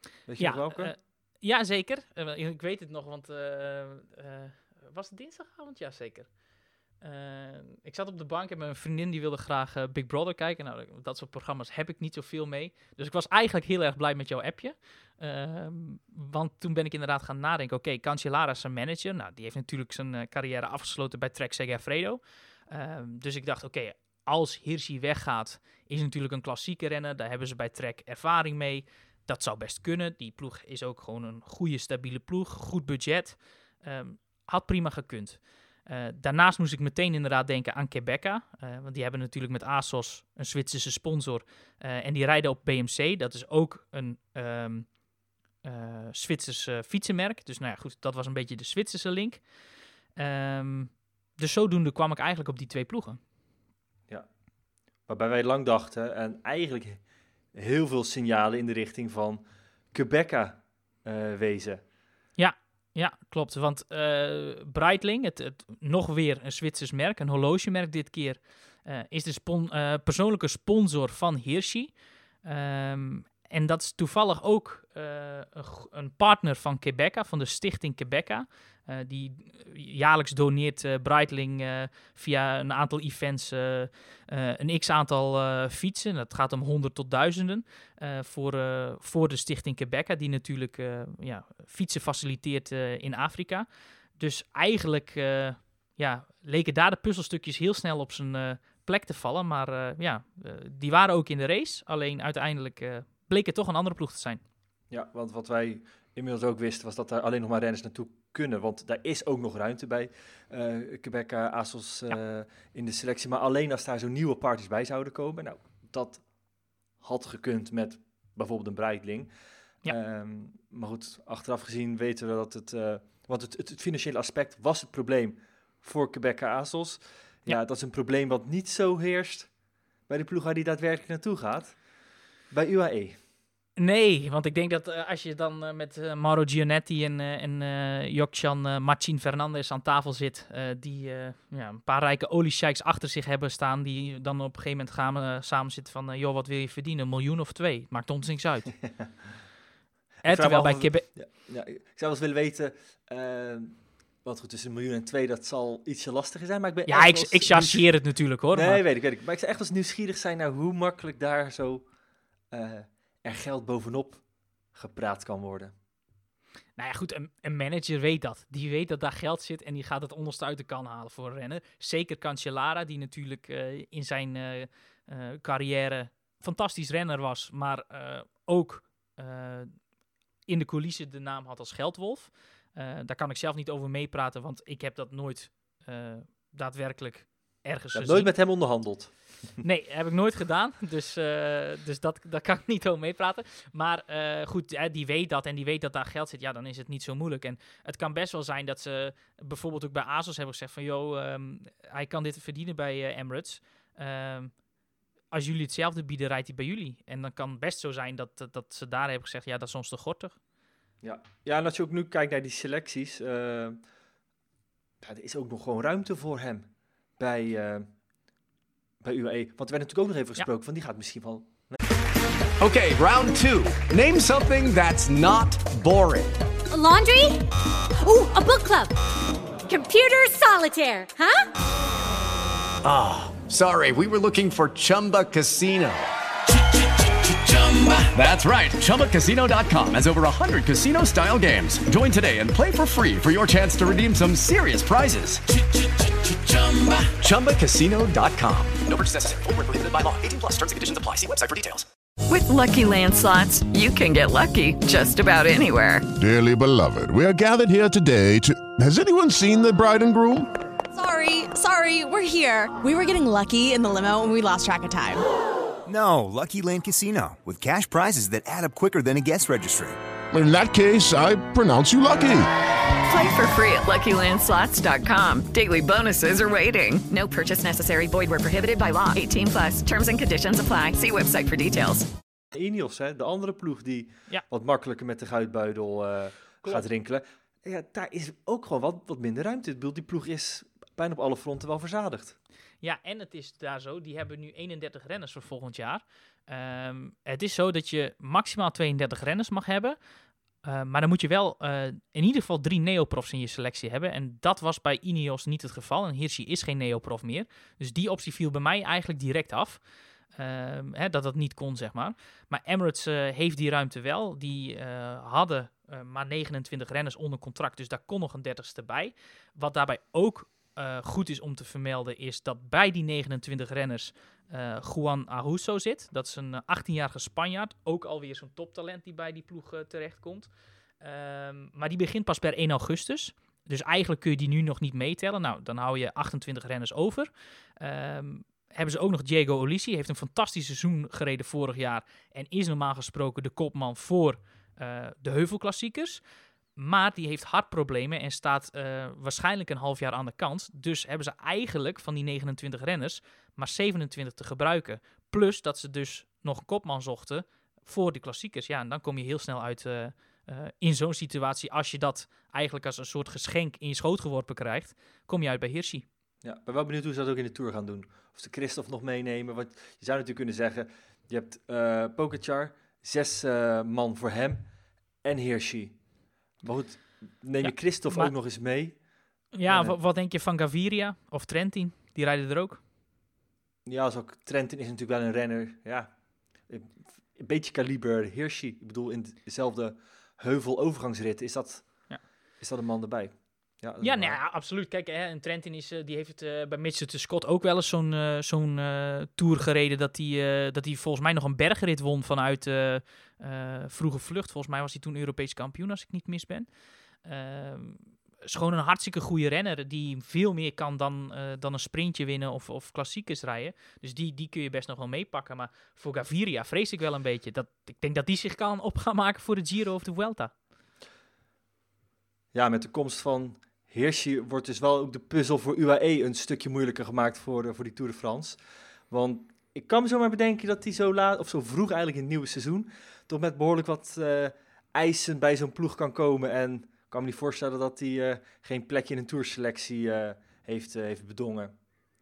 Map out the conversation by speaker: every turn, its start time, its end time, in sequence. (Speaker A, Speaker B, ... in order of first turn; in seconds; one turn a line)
Speaker A: 0.3-0.9
Speaker B: 0.4-6.3
Speaker B: 7.0-44.9
Speaker B: 45.6-49.4
Speaker B: 50.2-53.2
Speaker A: 55.1-57.0
Speaker A: 57.5-61.8
Speaker B: 62.4-104.4
Speaker A: 104.9-116.3
Speaker A: 117.0-119.3
Speaker A: 119.8-129.5
Speaker A: 130.1-131.8
Speaker A: 132.5-133.2
Speaker B: 133.8-148.8
Speaker B: 150.2-151.1
Speaker A: 150.3-157.9
Speaker B: 156.9-158.8
Speaker A: 158.5-161.9
Speaker A: 162.5-164.2
Speaker A: 164.7-165.7
Speaker B: 166.8-179.8
Speaker B: 180.5-188.4
Speaker A: 187.9-189.3
Speaker B: 189.6-204.6
Speaker B: 205.3-210.4
Speaker A: 211.0-213.8
Speaker A: 215.0-217.9
Speaker A: 219.0-221.8
Speaker C: 222.6-226.4
Speaker D: 226.7-227.4
Speaker D: 228.0-228.9
Speaker D: 229.7-231.5
Speaker C: 232.8-236.1
Speaker C: 237.3-245.5
Speaker C: 246.3-251.8
Speaker E: 252.3-256.1
Speaker F: 256.1-260.5
Speaker G: 260.9-265.2
Speaker H: 265.9-270.0
Speaker F: 270.3-272.5
Speaker E: 273.1-282.1
Speaker A: 282.5-292.4
Speaker B: 292.8-300.0
Speaker B: 300.6-309.8
Speaker B: 310.4-330.5
Speaker B: 331.0-346.2
Speaker B: 346.8-366.1
Speaker A: 366.4-374.7
Speaker A: 375.2-376.0
Speaker A: 376.6-380.0
Speaker B: 377.6-378.3
Speaker B: 379.5-382.8
Speaker A: 383.9-394.4
Speaker B: 394.0-406.7
Speaker B: 407.2-420.5
Speaker A: 422.5-428.6
Speaker A: 429.1-441.7